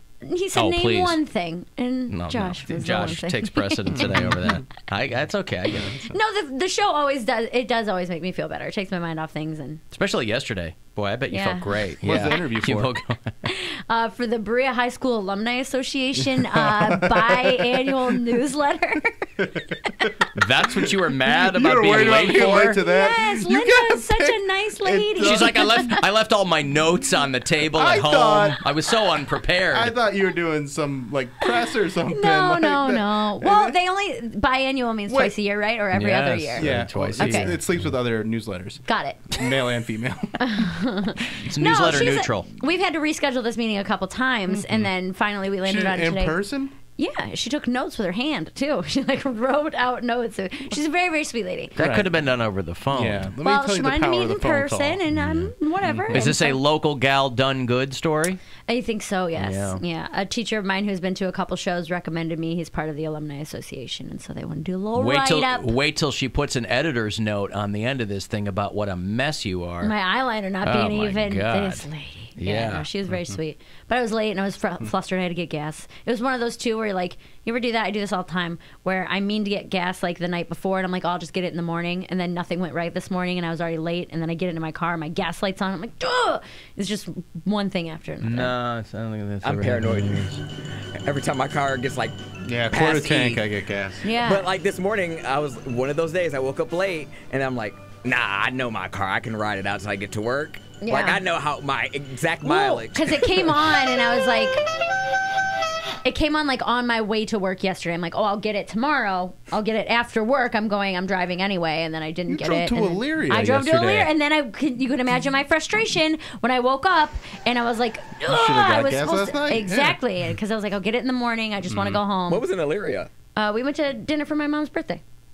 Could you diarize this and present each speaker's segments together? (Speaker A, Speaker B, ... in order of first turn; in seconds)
Speaker A: 0.2-4.3, 6.1-9.8, 11.3-11.8, 13.4-20.1, 22.3-26.0, 32.1-36.7, 37.2-37.5, 38.9-39.4, 40.4-46.4, 47.0-51.7, 53.4-56.6, 58.7-65.7, 69.8-88.5, 94.0-94.5, 100.8-101.2, 102.4-104.6, 106.0-122.5, 123.4-125.0
Speaker B: 0.6-1.2, 2.1-5.9, 9.9-13.3, 20.4-22.8, 25.2-29.9, 35.9-37.6, 41.4-42.5, 51.8-53.3, 55.2-55.5, 56.1-58.4, 59.4-59.8, 65.0-69.9, 70.6-72.9, 88.2-90.4
Speaker C: 4.0-4.6, 5.7-6.2, 12.0-12.9, 16.2-18.2, 19.4-20.1, 20.8-26.0, 27.7-28.6, 29.7-33.8, 35.1-35.4, 36.6-40.4, 44.5-44.9, 45.6-46.8, 51.8-52.1, 52.9-55.0, 55.8-56.3, 92.5-94.0, 112.3-114.1, 118.2-120.0, 121.7-122.0
Speaker D: 89.4-90.2, 91.0-92.2, 92.7-93.4, 94.1-103.5, 122.3-123.1